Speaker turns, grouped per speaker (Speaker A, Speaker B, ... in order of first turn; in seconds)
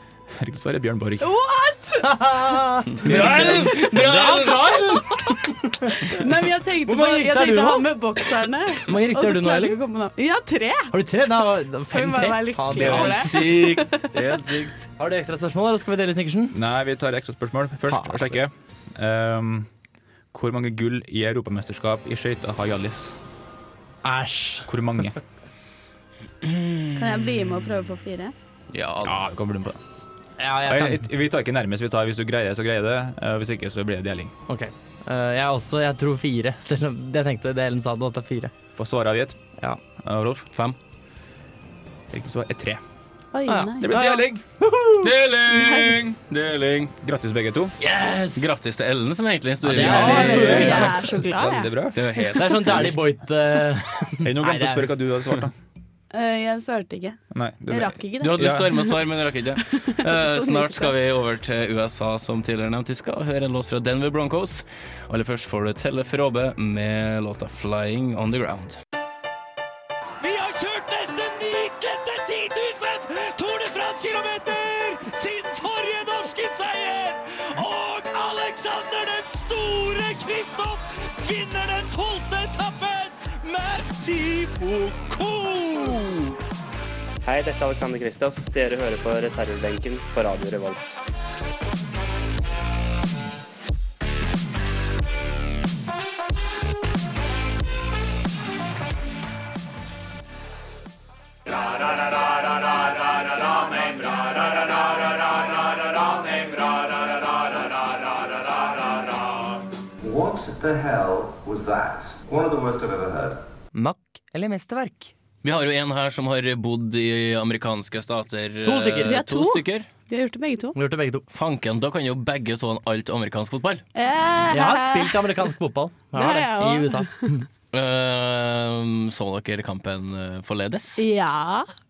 Speaker A: 0.4-1.3, 16.5-19.7, 20.3-23.2, 24.7-25.2, 29.0-29.8, 30.6-34.4, 38.8-39.4, 40.0-40.5, 42.1-42.8, 43.8-44.4, 47.0-47.8, 49.7-52.0, 54.2-55.5, 57.3-58.8
Speaker B: 1.2-2.2, 3.5-4.0, 5.1-5.4, 6.0-11.0, 11.9-14.1, 26.9-28.3, 43.3-43.9, 45.5-46.1, 49.8-51.8, 56.1-58.8, 59.6-60.9, 119.1-120.8, 123.9-125.4, 126.1-127.3, 131.0-131.7
Speaker C: 2.0-6.3, 6.8-8.0, 8.8-9.8, 10.9-13.5, 15.0-16.6, 17.9-18.3, 24.0-25.1, 30.4-31.1, 34.5-38.5, 43.5-45.1, 47.8-48.5, 49.6-51.0, 52.3-55.0, 113.7-115.1, 118.6-119.2, 120.8-121.2, 124.5-127.5
Speaker D: 3.0-5.3, 12.7-14.9, 26.4-27.3, 28.7-29.2, 45.0-46.9, 48.2-51.0, 52.0-53.0, 58.2-68.8, 115.4-119.9, 121.3-123.8, 127.7-131.0
Speaker E: 70.2-86.4
Speaker F: 87.2-90.9
Speaker G: 110.0-113.4